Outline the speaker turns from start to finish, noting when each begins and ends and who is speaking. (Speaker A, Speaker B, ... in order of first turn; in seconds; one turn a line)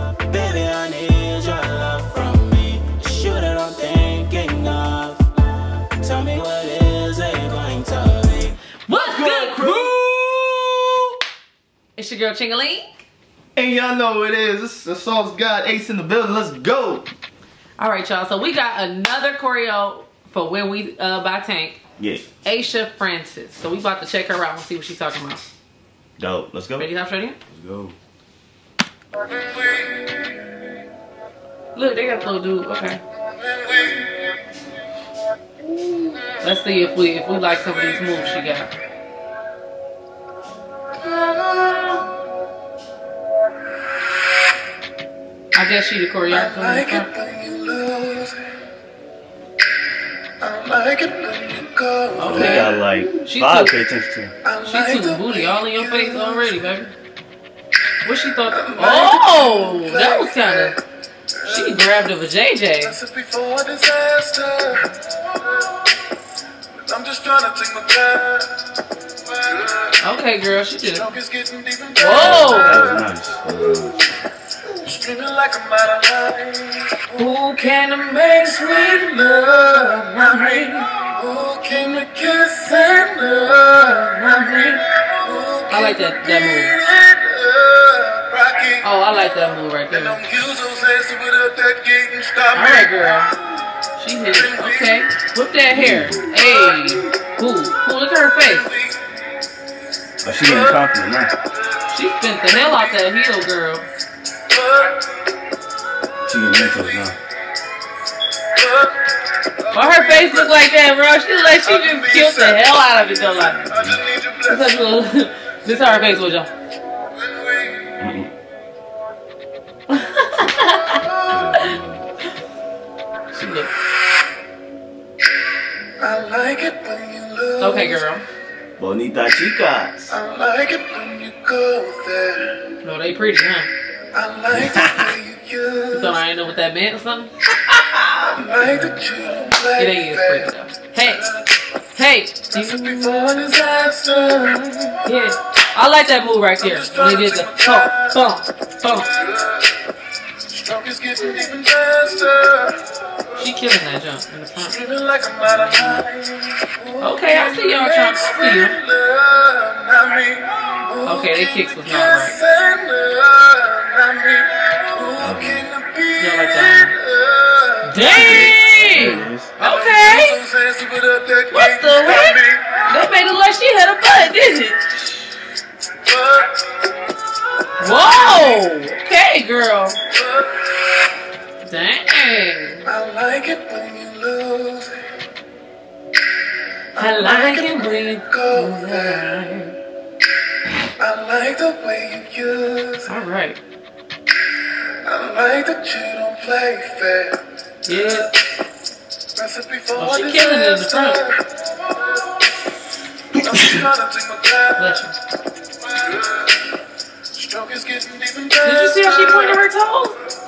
Speaker A: 0.3-5.2
Speaker B: 0.6-5.0
Speaker A: 6.0-8.5
Speaker B: 6.1-8.5
Speaker C: 8.9-10.1
Speaker D: 9.0-11.0
Speaker C: 12.0-13.0
Speaker D: 13.6-17.1
Speaker C: 17.8-21.8
Speaker D: 22.0-22.2
Speaker C: 22.4-25.4
Speaker D: 26.2-26.9
Speaker C: 26.8-27.4
Speaker D: 27.5-27.9
Speaker B: 29.5-30.1
Speaker C: 31.8-33.0
Speaker B: 33.4-34.1
Speaker C: 36.4-38.7
Speaker C: 41.3-41.8
Speaker C: 45.5-47.1
Speaker B: 46.3-48.4
Speaker B: 50.4-52.7
Speaker C: 52.2-53.8
Speaker D: 52.2-54.3
Speaker B: 54.4-56.5
Speaker C: 54.6-56.9
Speaker C: 58.0-60.8
Speaker B: 58.5-60.8
Speaker B: 61.3-61.9
Speaker C: 61.5-63.0
Speaker B: 62.9-64.9
Speaker B: 66.8-68.6
Speaker B: 69.3-70.0
Speaker C: 70.0-71.1
Speaker B: 70.8-73.0
Speaker C: 72.0-72.8
Speaker D: 72.2-74.2
Speaker B: 74.8-84.1
Speaker C: 77.2-80.9
Speaker C: 82.7-84.8
Speaker B: 84.9-92.9
Speaker C: 85.7-86.8
Speaker C: 88.8-90.2
Speaker C: 92.5-93.3
Speaker C: 93.9-98.7
Speaker B: 94.3-95.1
Speaker D: 95.7-96.3
Speaker B: 96.2-97.3
Speaker B: 98.4-99.0
Speaker D: 100.2-101.3
Speaker B: 100.4-100.8
Speaker C: 101.9-103.9
Speaker B: 102.5-102.9
Speaker B: 104.5-105.0
Speaker D: 106.2-107.2
Speaker B: 106.5-107.0
Speaker B: 108.5-109.0
Speaker B: 109.6-110.6
Speaker C: 109.7-113.6
Speaker B: 111.6-114.8
Speaker D: 113.7-114.0
Speaker C: 114.5-116.5
Speaker B: 117.2-117.9
Speaker D: 118.0-118.3
Speaker C: 119.9-121.7
Speaker D: 121.3-122.0
Speaker C: 123.3-123.7
Speaker B: 126.0-128.1
Speaker C: 127.6-128.2
Speaker D: 128.8-130.2
Speaker B: 130.1-132.6
Speaker C: 132.8-133.7
Speaker B: 134.1-136.2
Speaker D: 134.5-135.2
Speaker C: 135.9-137.3
Speaker B: 138.3-140.5
Speaker C: 139.8-141.3
Speaker B: 141.1-141.7
Speaker C: 141.9-143.9
Speaker B: 142.5-145.0
Speaker C: 145.1-149.1
Speaker B: 146.6-148.2
Speaker B: 149.1-149.8
Speaker B: 150.5-153.4
Speaker C: 153.4-154.8
Speaker B: 154.6-168.5
Speaker D: 155.4-156.0
Speaker C: 157.0-158.8
Speaker C: 161.1-162.4
Speaker D: 165.2-165.7
Speaker C: 166.2-166.9
Speaker C: 167.8-170.4
Speaker D: 168.1-169.6
Speaker B: 169.6-172.9
Speaker C: 171.5-174.8
Speaker B: 176.1-176.7
Speaker C: 177.8-180.0
Speaker B: 177.8-178.6
Speaker B: 180.1-180.6
Speaker C: 181.6-182.9
Speaker B: 182.8-185.0
Speaker B: 186.9-189.2
Speaker C: 187.0-189.8
Speaker B: 191.0-193.2
Speaker C: 193.1-193.6
Speaker B: 195.0-198.3
Speaker C: 197.9-198.3
Speaker B: 199.3-202.0
Speaker C: 200.0-201.2
Speaker B: 203.4-205.0
Speaker C: 204.8-205.2
Speaker B: 205.8-206.6
Speaker B: 207.3-209.6
Speaker C: 208.6-210.2